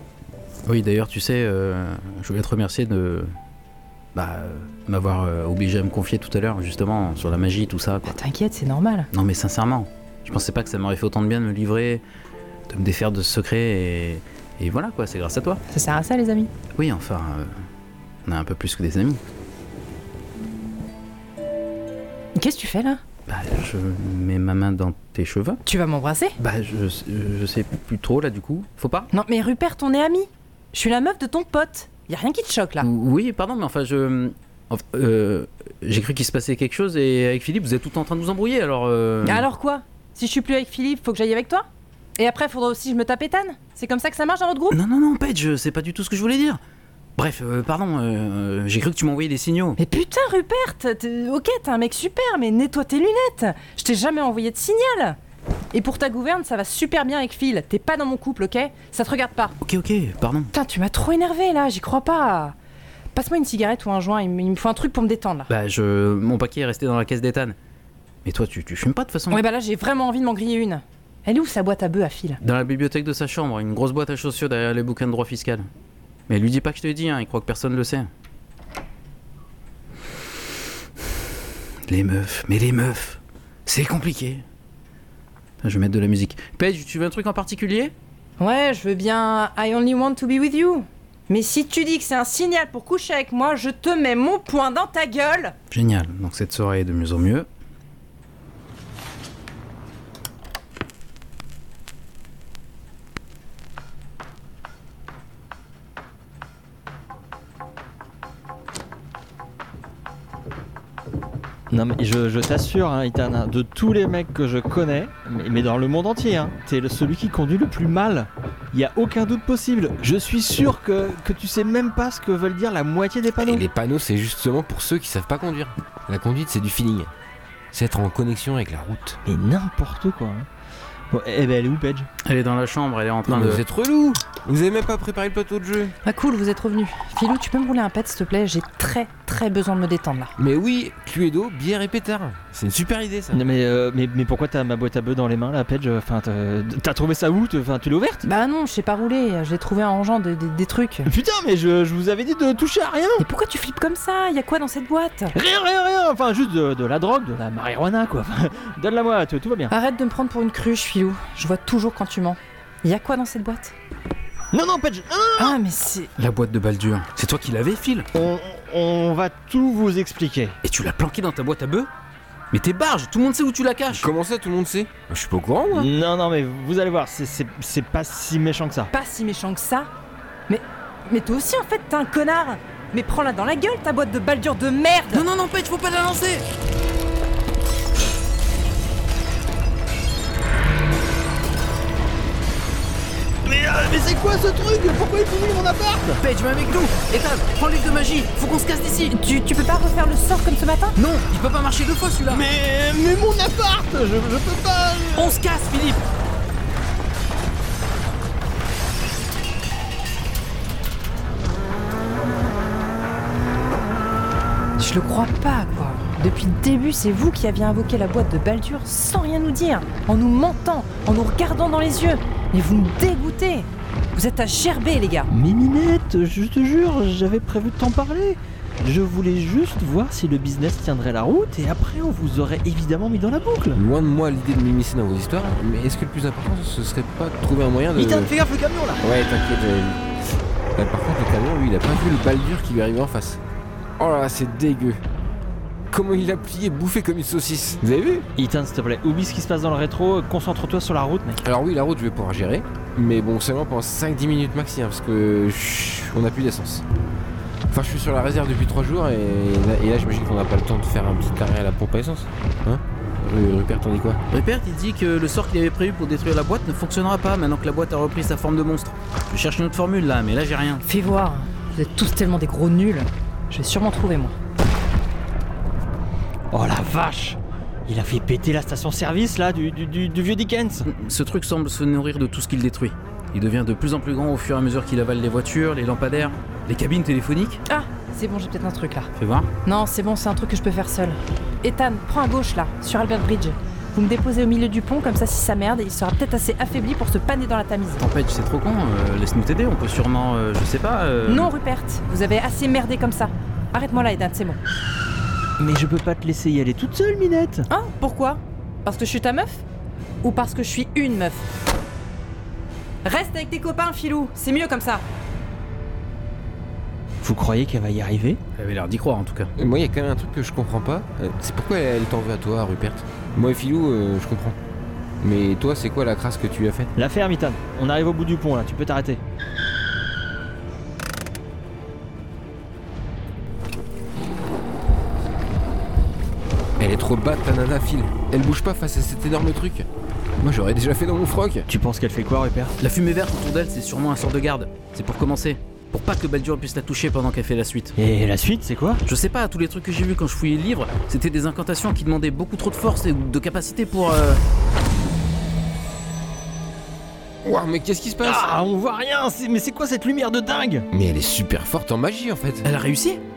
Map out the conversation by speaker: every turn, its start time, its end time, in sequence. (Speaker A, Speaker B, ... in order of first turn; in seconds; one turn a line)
Speaker A: 0.7-3.3
Speaker A: 4.1-8.1
Speaker B: 8.1-9.1
Speaker A: 9.1-12.0
Speaker A: 12.7-15.6
Speaker B: 15.7-16.5
Speaker A: 16.8-17.5
Speaker A: 18.2-19.2
Speaker B: 22.4-23.0
Speaker A: 23.3-25.6
Speaker B: 25.6-26.4
Speaker A: 26.4-29.1
Speaker B: 29.1-32.9
Speaker A: 32.8-39.5
Speaker B: 39.2-41.6
Speaker B: 42.2-44.8
Speaker A: 44.7-46.6
Speaker A: 47.2-49.8
Speaker B: 49.8-55.2
Speaker B: 55.7-59.6
Speaker A: 59.6-60.5
Speaker B: 60.5-62.5
Speaker B: 63.1-65.5
Speaker A: 65.5-67.5
Speaker A: 68.2-69.4
Speaker B: 69.3-72.4
Speaker A: 72.4-75.7
Speaker A: 76.3-78.1
Speaker A: 81.9-84.4
Speaker A: 85.6-87.9
Speaker B: 88.4-95.5
Speaker A: 95.7-97.5
Speaker C: 111.7-123.6
Speaker D: 123.4-127.1
Speaker D: 127.7-129.2
Speaker C: 129.2-130.5
Speaker C: 131.1-132.1
Speaker A: 132.2-133.6
Speaker D: 133.3-135.9
Speaker B: 136.0-140.3
Speaker D: 140.4-143.4
Speaker C: 143.3-148.2
Speaker B: 148.2-151.1
Speaker C: 151.0-153.2
Speaker B: 153.2-155.3
Speaker C: 155.3-159.7
Speaker B: 159.7-163.7
Speaker C: 164.5-165.6
Speaker B: 165.4-166.1
Speaker A: 166.2-168.1
Speaker C: 168.1-170.6
Speaker A: 170.6-171.9
Speaker A: 172.5-174.1
Speaker D: 173.9-175.9
Speaker C: 175.7-178.9
Speaker B: 178.9-179.9
Speaker B: 180.5-185.2
Speaker A: 185.1-186.4
Speaker C: 193.4-196.2
Speaker A: 196.2-199.1
Speaker B: 199.0-200.9
Speaker A: 200.9-202.4
Speaker C: 202.3-205.4
Speaker A: 205.1-206.0
Speaker B: 214.8-225.3
Speaker C: 225.3-233.8
Speaker D: 233.7-238.3
Speaker C: 237.9-239.0
Speaker D: 239.0-240.0
Speaker D: 240.8-243.4
Speaker D: 244.0-245.0
Speaker D: 245.9-248.3
Speaker C: 248.3-251.4
Speaker D: 251.4-256.8
Speaker D: 257.7-264.2
Speaker A: 264.3-270.8
Speaker B: 270.8-274.3
Speaker C: 276.5-280.9
Speaker A: 280.9-287.6
Speaker B: 287.7-289.1
Speaker A: 289.1-289.5
Speaker B: 289.6-298.0
Speaker A: 298.0-301.5
Speaker B: 301.2-304.6
Speaker C: 305.6-307.7
Speaker B: 307.7-309.6
Speaker B: 310.2-311.5
Speaker B: 313.0-315.0
Speaker C: 317.2-318.4
Speaker A: 318.6-319.5
Speaker D: 319.6-324.6
Speaker D: 325.2-326.9
Speaker C: 326.9-329.2
Speaker D: 336.8-339.9
Speaker D: 340.4-341.7
Speaker C: 341.7-342.8
Speaker A: 342.8-347.9
Speaker C: 348.0-349.0
Speaker A: 349.0-354.4
Speaker D: 357.4-358.5
Speaker C: 358.2-360.9
Speaker D: 360.9-362.6
Speaker A: 362.6-363.2